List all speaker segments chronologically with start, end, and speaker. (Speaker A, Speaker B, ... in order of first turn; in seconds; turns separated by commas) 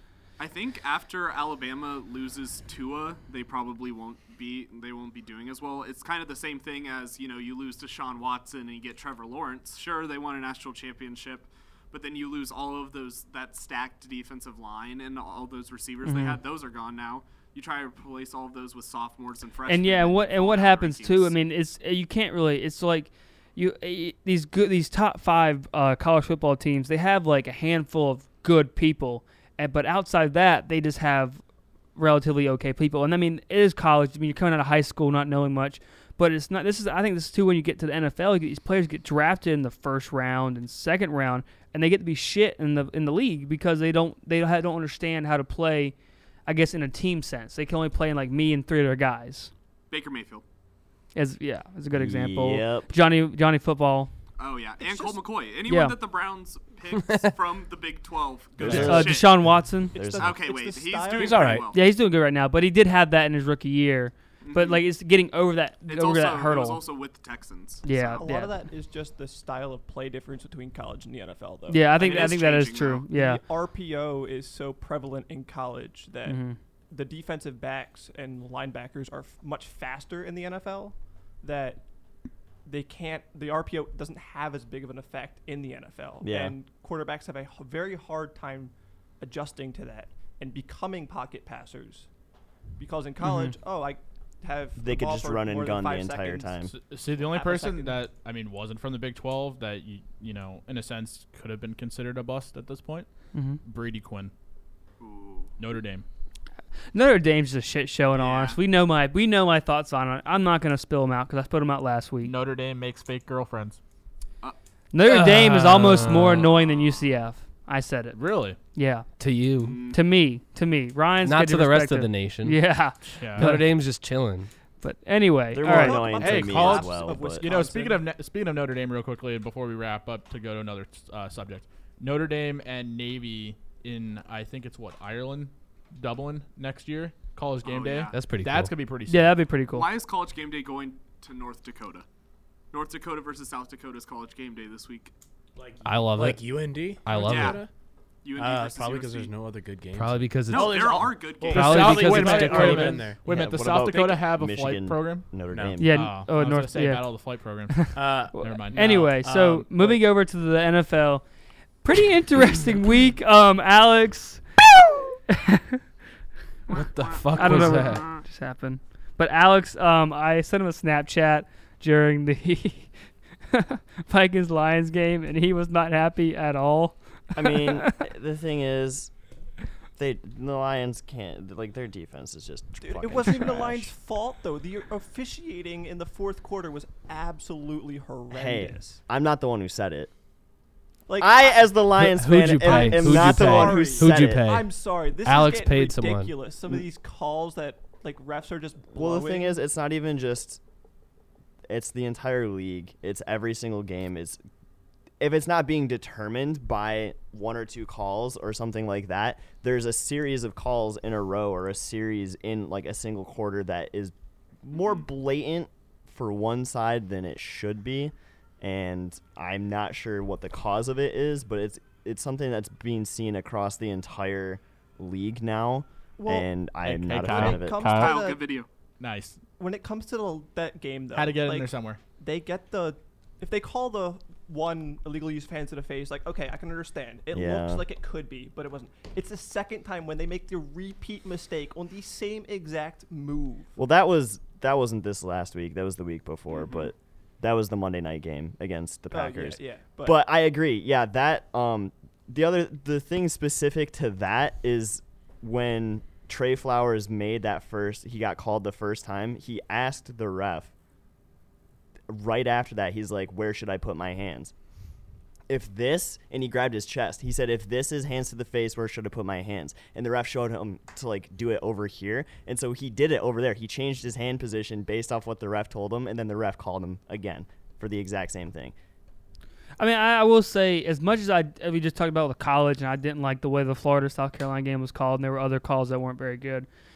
Speaker A: 0.4-21.3, Speaker B: 16.0-16.4, Speaker B: 19.6-31.4, Speaker B: 31.9-45.9, Speaker B: 46.5-49.5, Speaker A: 49.9-50.4, Speaker B: 51.1-54.1, Speaker C: 51.9-52.9, Speaker A: 54.4-59.4, Speaker D: 54.8-55.1, Speaker B: 55.6-56.0, Speaker C: 58.6-59.4, Speaker B: 58.7-60.0, Speaker D: 59.8-61.6, Speaker C: 59.9-60.4, Speaker A: 60.2-61.8, Speaker E: 61.1-61.7, Speaker B: 61.7-66.8, Speaker A: 64.4-64.8, Speaker A: 65.8-68.2, Speaker B: 67.8-68.5, Speaker D: 68.2-72.4, Speaker B: 71.7-73.4, Speaker A: 72.0-73.1, Speaker D: 73.1-81.8, Speaker B: 76.2-76.6, Speaker D: 82.6-92.1, Speaker C: 86.2-86.5, Speaker D: 92.8-98.0, Speaker B: 93.2-93.5, Speaker C: 94.8-96.7, Speaker F: 96.7-103.1, Speaker B: 103.3-103.6, Speaker F: 103.6-104.3, Speaker A: 105.0-105.5, Speaker F: 105.6-106.0, Speaker B: 106.9-112.3, Speaker A: 108.1-108.6, Speaker F: 112.2-113.8, Speaker B: 114.9-118.2, Speaker G: 115.0-116.5, Speaker A: 116.3-117.1, Speaker F: 118.1-118.6, Speaker B: 118.7-119.1, Speaker G: 119.2-119.8, Speaker A: 119.6-120.0, Speaker B: 119.9-123.7, Speaker G: 121.2-122.6, Speaker F: 123.2-123.6, Speaker G: 123.3-124.5, Speaker B: 124.8-126.0, Speaker C: 125.5-127.5, Speaker D: 125.6-128.1, Speaker F: 126.1-139.4, Speaker A: 137.6-138.1, Speaker G: 138.1-138.7, Speaker B: 139.1-139.9, Speaker A: 139.7-142.1, Speaker A: 142.7-145.1, Speaker E: 145.6-147.7, Speaker G: 145.8-147.6, Speaker A: 147.2-147.6, Speaker A: 148.2-149.3, Speaker E: 148.3-153.2, Speaker G: 149.9-153.1, Speaker A: 150.5-152.2, Speaker F: 151.5-159.1, Speaker C: 153.2-156.1, Speaker E: 155.5-155.8, Speaker B: 155.8-157.1, Speaker B: 157.7-161.2, Speaker E: 157.9-160.0, Speaker B: 161.8-164.4, Speaker B: 165.3-165.8, Speaker A: 166.7-168.2, Speaker G: 166.7-168.1, Speaker B: 167.3-172.9, Speaker B: 173.5-177.9, Speaker C: 177.3-179.1, Speaker C: 180.0-183.9, Speaker D: 182.8-189.0, Speaker C: 188.3-190.1, Speaker D: 191.1-191.8, Speaker C: 191.2-194.5, Speaker G: 191.9-194.7, Speaker D: 192.6-199.6, Speaker G: 195.2-196.3, Speaker C: 198.9-200.6, Speaker C: 201.7-204.4, Speaker C: 205.2-228.1, Speaker A: 214.8-215.0, Speaker D: 226.2-226.5, Speaker F: 226.8-228.2, Speaker D: 227.1-228.4, Speaker A: 227.9-228.7, Speaker F: 229.0-229.4, Speaker D: 229.6-243.8, Speaker F: 231.1-232.0, Speaker C: 237.3-237.8, Speaker C: 243.8-260.7, Speaker D: 246.5-246.9, Speaker D: 249.1-250.2, Speaker C: 262.1-264.5, Speaker C: 265.5-278.7, Speaker B: 279.8-286.7